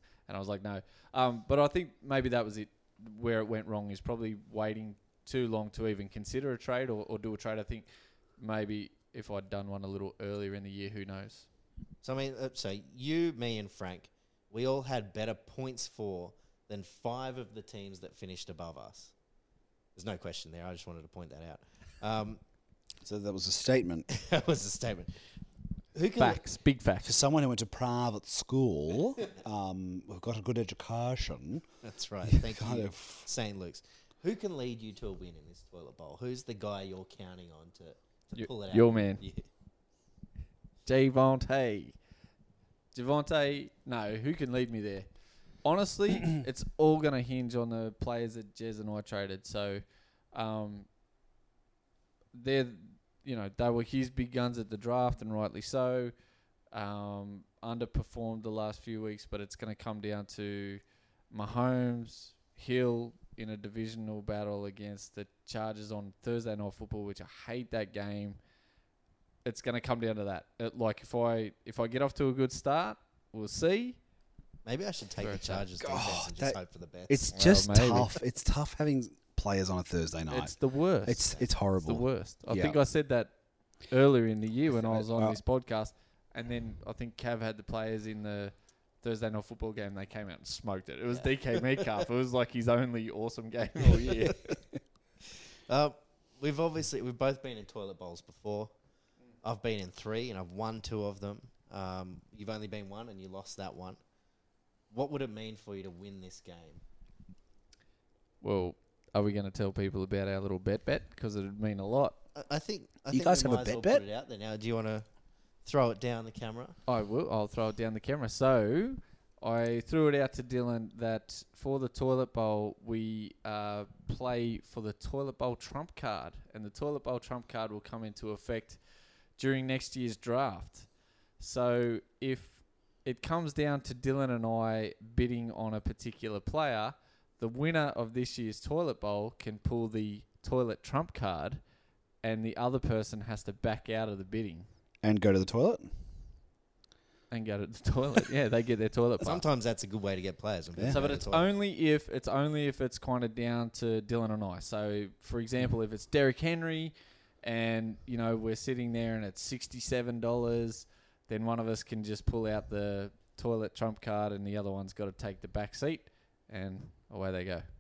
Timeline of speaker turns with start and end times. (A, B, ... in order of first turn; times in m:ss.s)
0:00.3-0:07.9 A
0:08.4-0:11.5 A
0:12.0-0:19.1 B
0:20.0-0:22.4 B
0:23.0-0:24.1 C
0:24.1-0:25.2 B
0:25.9-0:26.4 B
0:26.2-0:27.2 A
0:27.0-0:31.6 C
0:31.8-0:39.5 B
0:32.3-0:33.3 C
0:38.4-0:39.2 A
0:40.9-0:42.0 A
0:42.9-0:45.1 A
0:45.6-0:50.9 A
0:52.3-0:56.1 A
0:56.7-1:08.4 A
1:09.4-1:14.0 A
1:14.6-1:17.3 B
1:15.2-1:15.7 A
1:15.8-1:22.8 C
1:17.3-1:18.1 A
1:20.3-1:34.6 A
1:24.8-1:25.4 C
1:31.1-1:31.9 B
1:35.7-1:38.7 B
1:39.4-1:44.0 B
1:44.9-1:46.8 B
1:48.4-1:52.2 A
1:52.4-1:55.1 B
1:53.1-1:54.0 C
1:55.6-1:56.8 B
1:56.9-2:08.8 A
2:09.4-2:21.6 A
2:22.2-2:24.7 A
2:25.0-2:25.9 C
2:27.3-2:29.4 A
2:29.2-2:31.5 B
2:30.8-2:31.0 C
2:30.9-2:47.7 A